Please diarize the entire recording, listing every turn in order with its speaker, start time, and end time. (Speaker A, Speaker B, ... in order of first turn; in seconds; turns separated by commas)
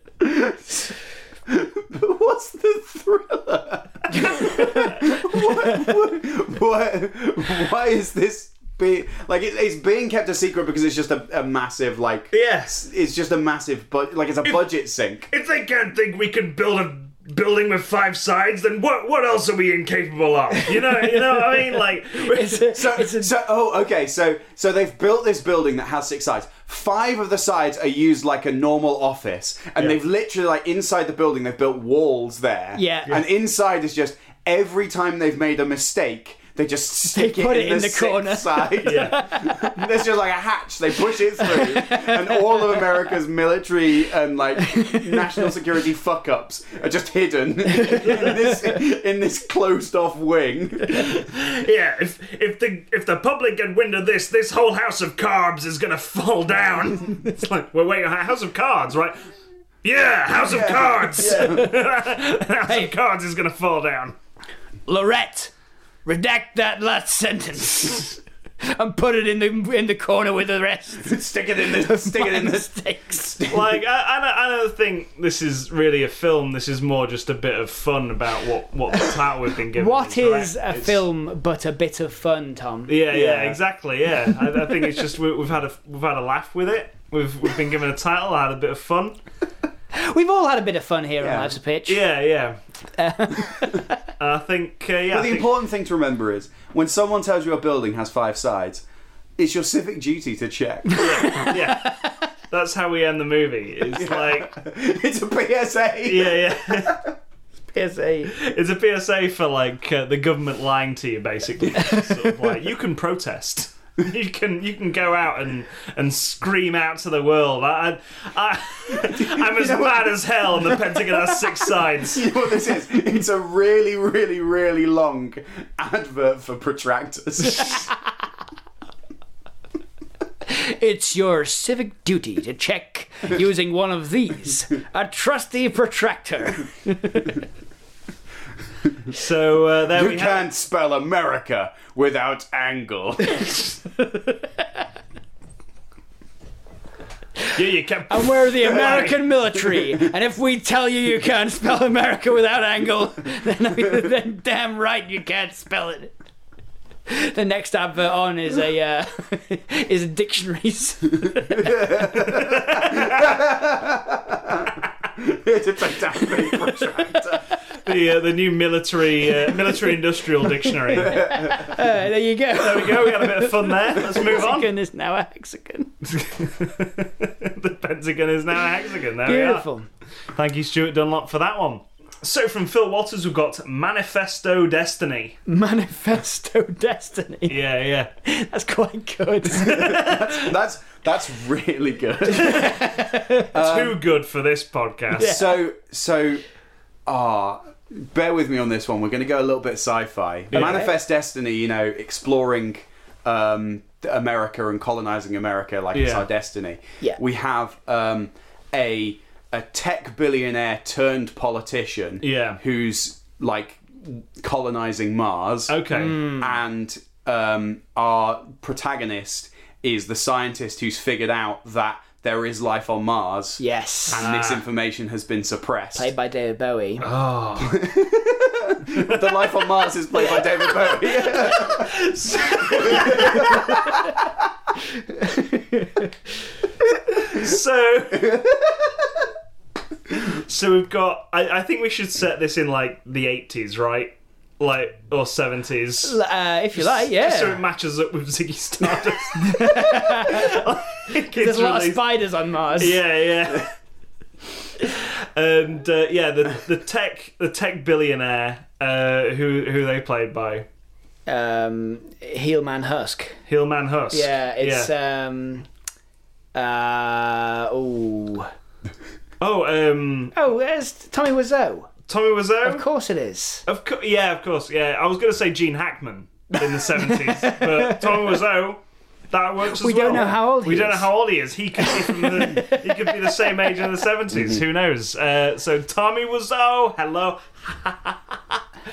Speaker A: 0.2-0.9, Speaker A: 1.5-15.3, Speaker B: 4.1-5.2, Speaker C: 12.3-12.8, Speaker C: 15.3-22.7, Speaker B: 20.6-23.3, Speaker A: 22.7-51.2, Speaker B: 32.8-33.2, Speaker B: 37.1-39.8, Speaker C: 38.8-39.2, Speaker B: 41.4-42.9, Speaker B: 44.7-45.2, Speaker B: 47.7-48.8, Speaker C: 50.9-59.2, Speaker C: 59.8-64.2, Speaker A: 60.4-61.7, Speaker B: 61.2-61.8, Speaker B: 62.7-62.9, Speaker B: 64.9-65.5, Speaker B: 66.1-73.4, Speaker A: 71.0-72.7, Speaker A: 73.3-73.8, Speaker C: 73.5-80.8, Speaker B: 79.7-83.1, Speaker A: 80.7-81.0, Speaker C: 82.9-89.2, Speaker A: 83.1-83.6, Speaker B: 89.9-92.0, Speaker A: 91.2-91.6, Speaker C: 91.9-92.6, Speaker B: 93.0-94.0, Speaker C: 94.2-95.5, Speaker A: 95.1-98.8, Speaker A: 99.4-101.5, Speaker B: 100.9-102.0, Speaker C: 101.0-104.5, Speaker A: 103.9-107.0, Speaker C: 106.1-107.0, Speaker B: 107.7-108.3, Speaker C: 108.3-122.2, Speaker B: 111.8-112.1, Speaker A: 119.2-120.8, Speaker A: 122.0-127.9, Speaker B: 127.6-127.9, Speaker B: 130.5-137.4, Speaker C: 139.1-140.4, Speaker A: 139.9-143.7, Speaker C: 147.5-149.2, Speaker B: 148.1-156.2, Speaker A: 149.7-150.0, Speaker B: 157.1-162.3, Speaker A: 161.5-167.5, Speaker C: 162.3-163.3, Speaker B: 166.1-166.8, Speaker C: 167.8-171.5, Speaker B: 170.5-175.9, Speaker A: 171.0-171.7, Speaker C: 172.5-174.7, Speaker C: 176.1-179.7, Speaker B: 179.2-179.9, Speaker C: 180.3-185.4, Speaker B: 185.5-187.6, Speaker C: 187.5-188.1, Speaker B: 188.2-190.0, Speaker C: 189.5-190.5, Speaker A: 189.6-192.8, Speaker B: 192.3-193.5, Speaker C: 192.4-192.7, Speaker C: 193.4-195.3, Speaker A: 193.5-194.0, Speaker B: 195.2-195.6, Speaker A: 195.2-196.4, Speaker A: 197.1-226.1, Speaker C: 200.5-200.9, Speaker B: 200.5-200.9, Speaker C: 205.9-206.3, Speaker C: 212.2-212.6, Speaker C: 215.7-216.2, Speaker B: 215.9-216.6, Speaker B: 223.6-224.2, Speaker C: 224.1-224.6, Speaker B: 226.0-227.1, Speaker C: 227.0-227.8, Speaker A: 227.6-232.1, Speaker C: 228.9-229.7, Speaker C: 230.4-233.7, Speaker A: 232.6-234.3, Speaker B: 233.2-234.1, Speaker B: 235.1-236.1, Speaker C: 237.2-238.4, Speaker A: 238.2-239.0, Speaker C: 240.1-246.2, Speaker B: 246.0-247.6, Speaker C: 246.7-252.0, Speaker B: 249.3-250.7, Speaker B: 251.3-253.0, Speaker C: 252.8-253.7, Speaker C: 254.8-260.7, Speaker B: 261.3-263.4, Speaker C: 263.5-264.9, Speaker B: 264.1-265.7, Speaker B: 266.5-268.5, Speaker C: 269.4-270.4, Speaker B: 270.4-271.9, Speaker C: 272.1-272.8, Speaker B: 272.6-273.6, Speaker C: 273.7-288.6, Speaker B: 276.8-278.4, Speaker B: 279.7-281.1, Speaker B: 281.8-283.8, Speaker A: 284.3-284.6